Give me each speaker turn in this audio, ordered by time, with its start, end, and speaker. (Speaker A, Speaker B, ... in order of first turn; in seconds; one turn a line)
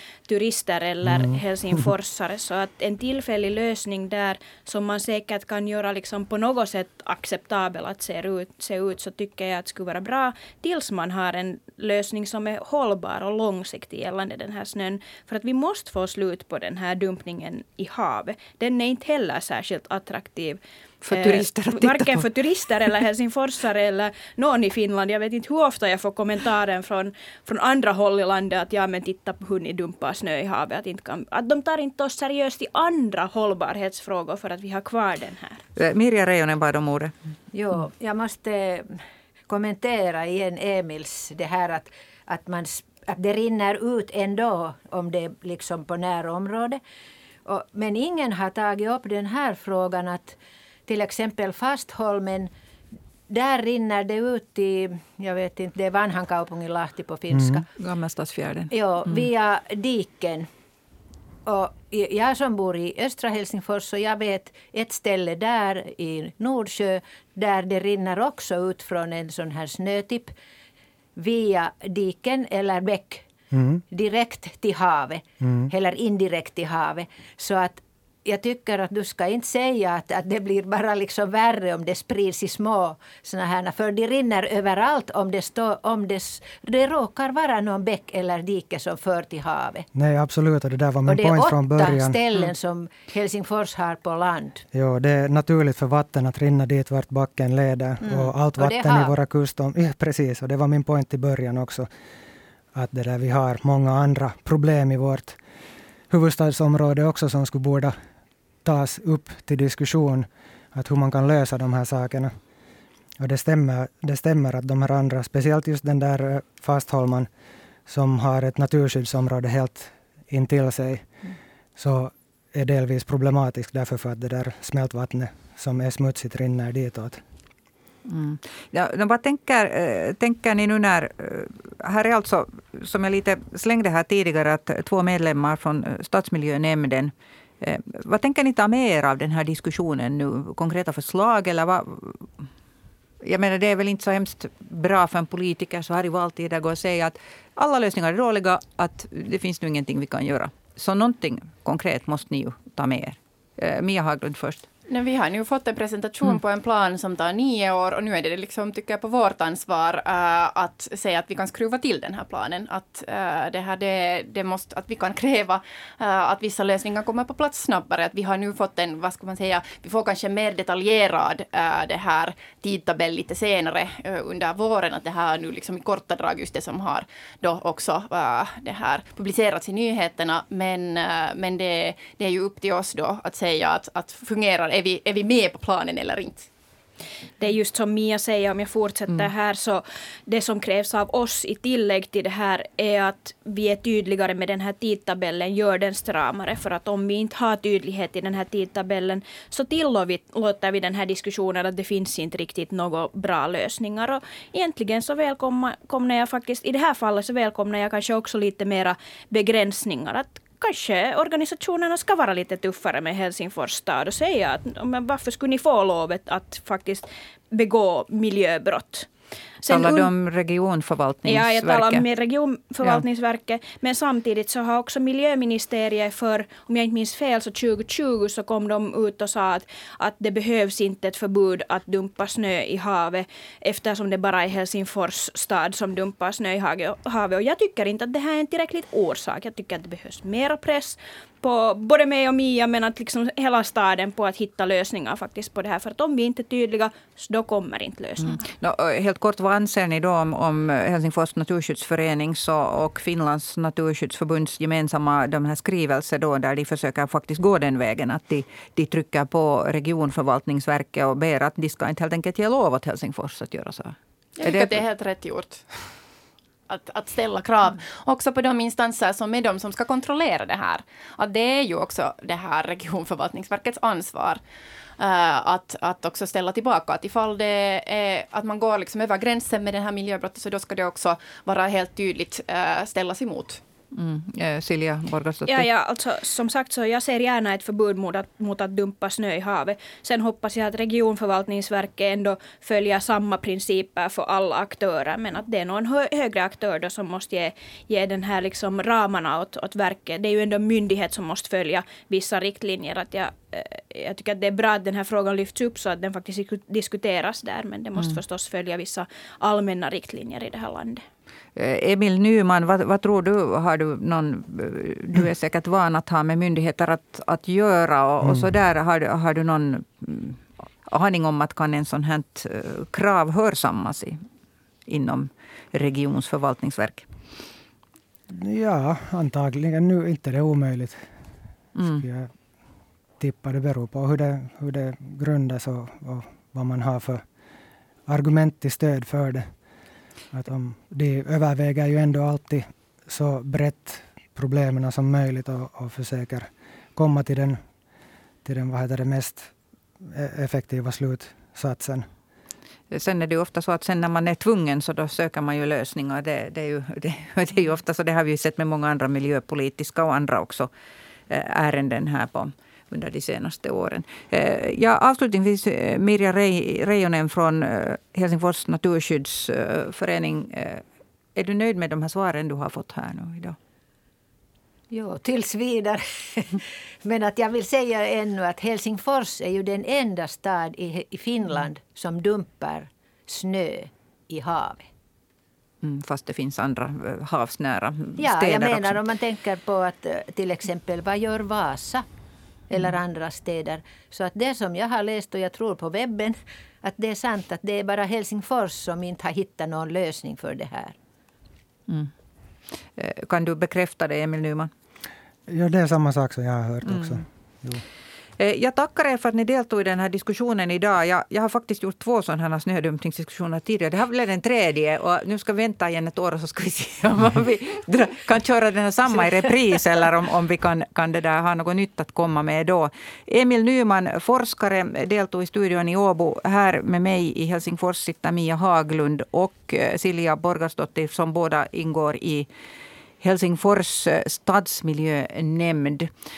Speaker A: 0.3-20.6
Speaker B: 21.0-22.3
Speaker A: 21.1-35.6
Speaker B: 35.8-37.1
Speaker C: 37.5-39.0
Speaker C: 39.5-46.8
Speaker C: 47.4-52.5
Speaker C: 53.3-57.7
Speaker D: 57.3-57.6
Speaker B: 57.8-59.2
Speaker C: 58.7-60.5
Speaker C: 61.5-70.3
Speaker C: 71.2-73.3
Speaker D: 73.5-73.8
Speaker C: 73.9-89.9
Speaker D: 75.4-75.7
Speaker D: 89.9-92.2
Speaker C: 91.0-94.6
Speaker D: 94.7-101.9
Speaker C: 98.0-99.1
Speaker D: 102.7-105.4
Speaker D: 106.1-107.9
Speaker D: 108.6-112.3
Speaker D: 113.2-117.3
Speaker D: 117.9-121.0
Speaker D: 121.8-127.2
Speaker B: 128.0-142.3
Speaker B: 143.2-154.7
Speaker E: 154.9-186.5
Speaker A: 187.4-219.1
Speaker A: 219.6-220.1
Speaker B: 219.7-222.1
Speaker A: 221.2-248.4
Speaker B: 248.2-264.8
Speaker E: 264.4-265.6
Speaker E: 266.7-274.4
Speaker E: 275.0-283.6
Speaker B: 283.9-285.7
Speaker A: 285.4-311.0
Speaker B: 311.6-324.2
Speaker B: 324.9-327.1
Speaker D: 328.3-331.1
Speaker B: 331.7-332.0
Speaker D: 332.0-332.3
Speaker D: 333.2-337.2
Speaker D: 338.1-339.5
Speaker D: 340.3-347.6
Speaker D: 348.4-349.5
Speaker D: 350.0-352.1
Speaker B: 352.9-360.7
Speaker B: 361.3-370.8
Speaker B: 371.3-373.6
Speaker C: 374.9-384.9
Speaker B: 385.8-389.0
Speaker C: 388.2-392.1
Speaker C: 392.7-400.9
Speaker B: 402.9-404.7
Speaker D: 405.5-407.8
Speaker B: 406.9-407.2
Speaker B: 408.4-432.5
Speaker B: 433.2-436.1